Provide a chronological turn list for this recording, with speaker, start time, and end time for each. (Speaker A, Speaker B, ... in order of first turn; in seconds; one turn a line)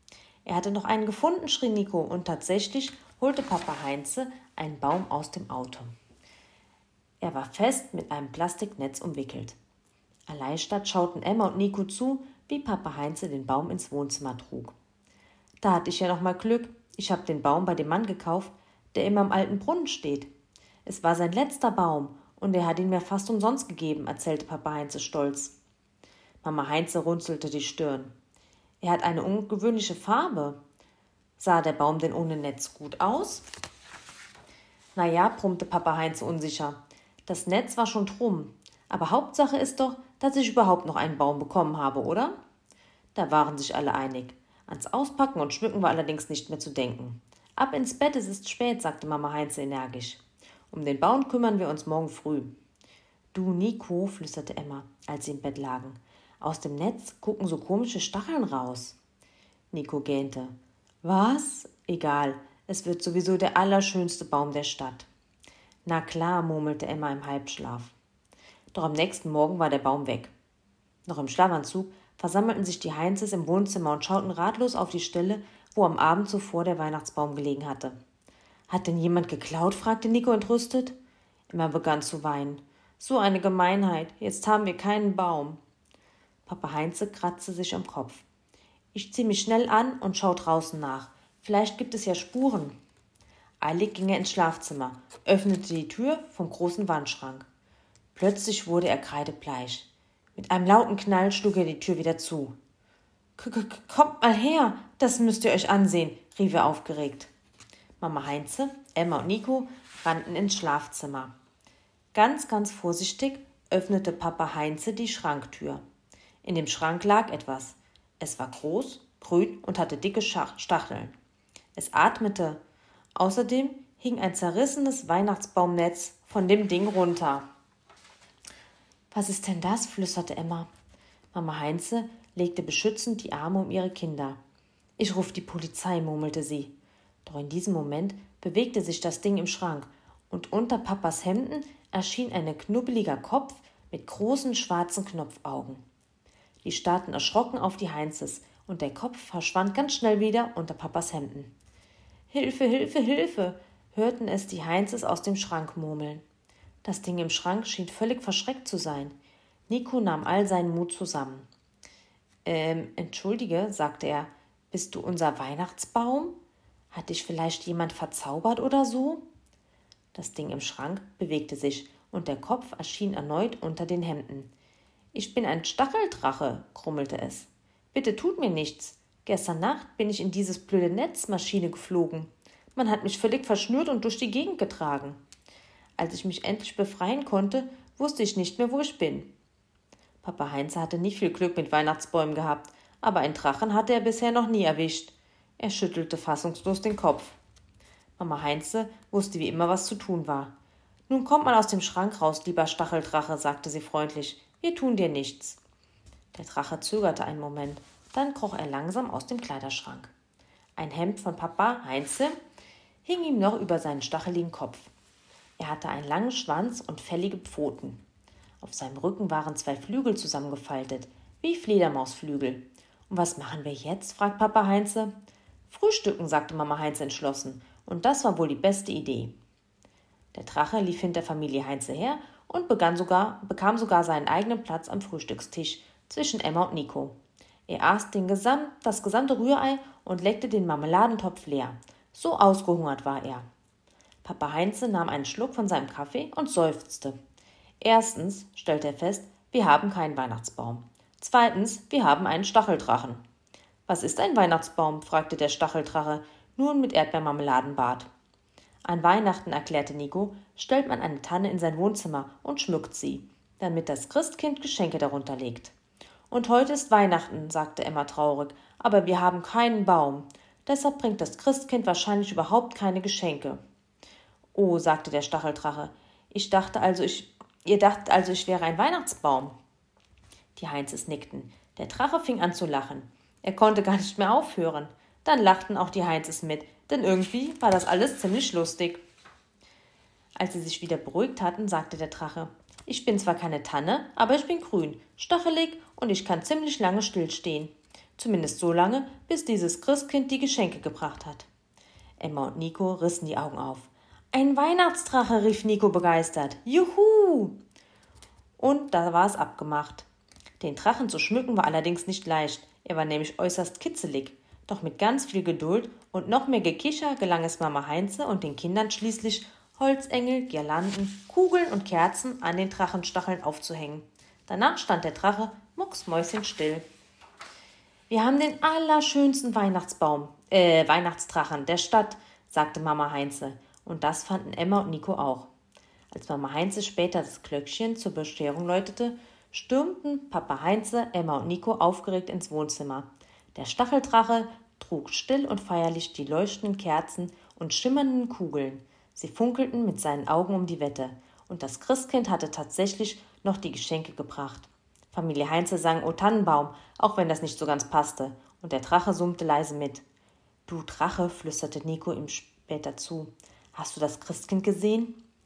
Speaker A: 0.4-5.9
Speaker A: 7.2-9.6
Speaker A: 10.3-14.7
Speaker A: 15.6-20.3
Speaker A: 20.8-25.6
Speaker A: 26.4-28.1
Speaker A: 28.8-30.6
Speaker A: 31.4-33.5
Speaker A: 34.9-42.4
Speaker A: 43.1-52.5
Speaker A: 53.3-59.0
Speaker A: 59.7-65.1
Speaker A: 65.8-67.9
Speaker A: 68.7-70.3
Speaker A: 71.0-78.0
Speaker A: 78.7-80.9
Speaker A: 81.5-85.6
Speaker A: 86.5-88.2
Speaker A: 88.9-92.8
Speaker A: 93.6-97.4
Speaker A: 98.1-102.5
Speaker A: 103.4-107.3
Speaker A: 108.0-111.3
Speaker A: 112.1-115.8
Speaker A: 116.4-121.1
Speaker A: 121.7-122.6
Speaker A: 123.2-127.5
Speaker A: 129.1-130.7
Speaker A: 131.3-134.4
Speaker A: 135.0-136.7
Speaker A: 137.2-145.8
Speaker A: 146.6-151.5
Speaker A: 152.3-156.2
Speaker A: 156.8-159.1
Speaker A: 159.7-161.5
Speaker A: 162.4-166.4
Speaker A: 166.9-169.2
Speaker A: 170.1-174.5
Speaker A: 175.1-185.2
Speaker A: 186.0-189.3
Speaker A: 190.2-197.3
Speaker A: 198.2-200.5
Speaker A: 201.1-205.6
Speaker A: 206.3-210.1
Speaker A: 210.8-212.3
Speaker A: 213.0-214.9
Speaker A: 215.6-218.0
Speaker A: 218.6-225.1
Speaker A: 225.7-229.3
Speaker A: 230.3-237.2
Speaker A: 237.7-243.4
Speaker A: 244.2-247.2
Speaker A: 247.8-253.2
Speaker A: 253.9-258.1
Speaker A: 258.8-265.7
Speaker A: 266.3-273.6
Speaker A: 274.5-279.5
Speaker A: 280.6-289.0
Speaker A: 290.4-301.5
Speaker A: 302.2-307.6
Speaker A: 308.6-310.1
Speaker A: 310.6-326.8
Speaker A: 328.1-335.5
Speaker A: 336.1-360.0
Speaker A: 360.7-365.2